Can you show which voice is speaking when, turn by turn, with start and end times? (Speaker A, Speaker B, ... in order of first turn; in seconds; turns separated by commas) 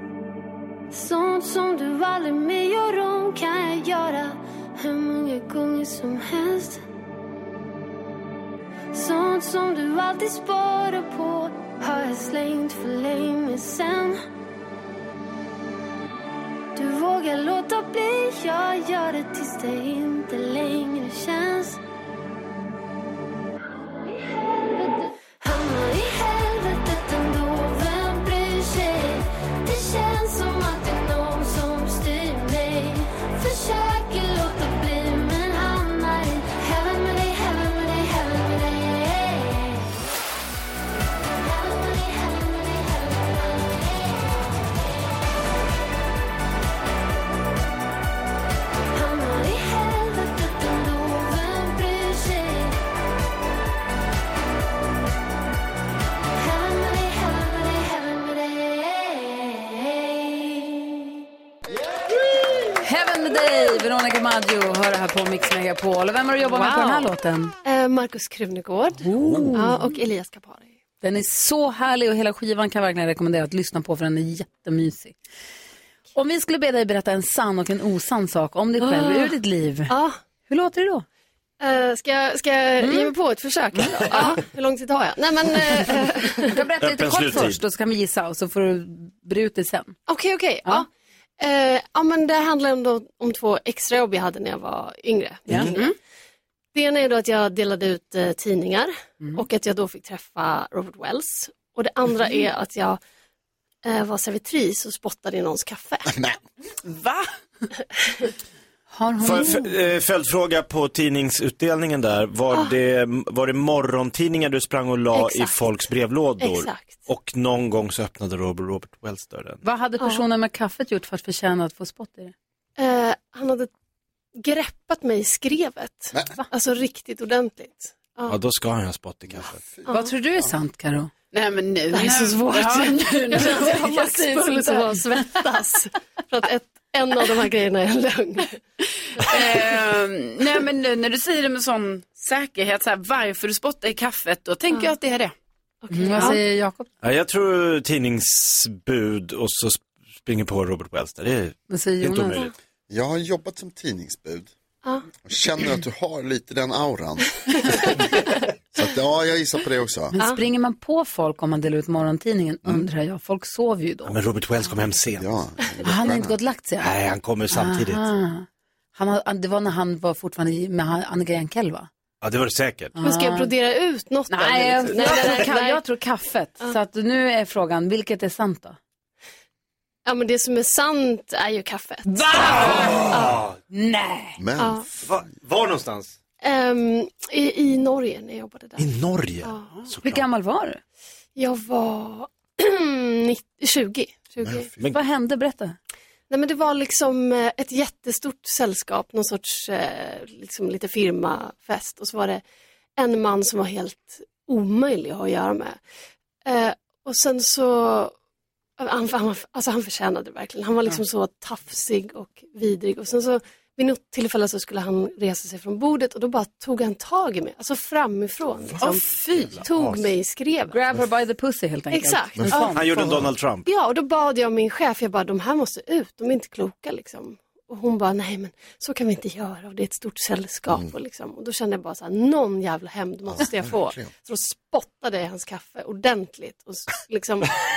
Speaker A: 0.9-6.8, Speaker A: 8.9-14.2, Speaker A: 16.7-21.8, Speaker A: 24.2-39.9, Speaker A: 41.4-44.5, Speaker A: 48.9-52.8, Speaker A: 56.4-61.0, Speaker B: 62.8-67.5, Speaker C: 66.4-67.1, Speaker C: 67.6-70.7, Speaker B: 69.0-70.0, Speaker D: 69.1-69.5, Speaker B: 71.0-75.1, Speaker B: 76.1-79.9, Speaker C: 78.8-79.3, Speaker C: 79.9-80.2, Speaker B: 80.5-81.0, Speaker C: 81.6-86.6, Speaker B: 82.8-83.1, Speaker B: 86.4-90.0, Speaker D: 86.8-87.6, Speaker C: 90.1-90.9, Speaker C: 91.4-95.9, Speaker D: 95.5-95.7, Speaker E: 95.6-95.9, Speaker C: 96.7-103.0, Speaker C: 103.8-106.1, Speaker F: 106.1-106.4, Speaker E: 106.8-107.3, Speaker B: 108.9-109.7, Speaker D: 109.2-119.6, Speaker C: 115.1-115.6, Speaker C: 116.4-117.0, Speaker B: 119.6-122.3, Speaker C: 122.8-123.7, Speaker C: 124.4-128.4, Speaker D: 128.3-129.6, Speaker F: 129.6-129.9, Speaker C: 129.8-130.1, Speaker B: 129.9-131.1, Speaker E: 131.3-135.0, Speaker C: 131.9-138.6, Speaker E: 139.2-145.3, Speaker C: 145.8-146.4, Speaker B: 145.9-146.9, Speaker E: 146.1-146.4, Speaker D: 147.0-152.5, Speaker B: 151.7-152.5, Speaker F: 152.9-154.5, Speaker F: 155.2-157.8, Speaker C: 157.5-157.9, Speaker F: 158.7-160.2, Speaker B: 160.1-164.2, Speaker C: 160.2-160.4, Speaker D: 164.0-165.3, Speaker F: 165.2-166.3, Speaker B: 165.8-166.9, Speaker D: 166.8-168.1, Speaker B: 167.5-171.9, Speaker D: 172.2-172.9, Speaker B: 173.0-173.5, Speaker C: 173.0-175.8, Speaker B: 174.3-178.8, Speaker C: 180.1-183.3, Speaker B: 182.1-183.1, Speaker D: 182.3-183.6, Speaker B: 183.7-184.4, Speaker F: 184.4-184.8, Speaker C: 184.6-184.8, Speaker D: 185.0-186.1, Speaker C: 186.4-188.9, Speaker D: 188.8-190.2, Speaker C: 189.4-189.7, Speaker B: 190.0-190.8, Speaker C: 191.3-194.7, Speaker B: 194.9-195.8, Speaker C: 196.3-202.4, Speaker C: 203.0-205.8, Speaker C: 206.4-208.1, Speaker C: 208.8-220.8, Speaker E: 218.8-219.1, Speaker D: 219.3-220.1, Speaker B: 220.7-223.2, Speaker C: 221.9-222.7, Speaker D: 222.5-223.7, Speaker C: 223.6-237.5, Speaker F: 233.3-234.1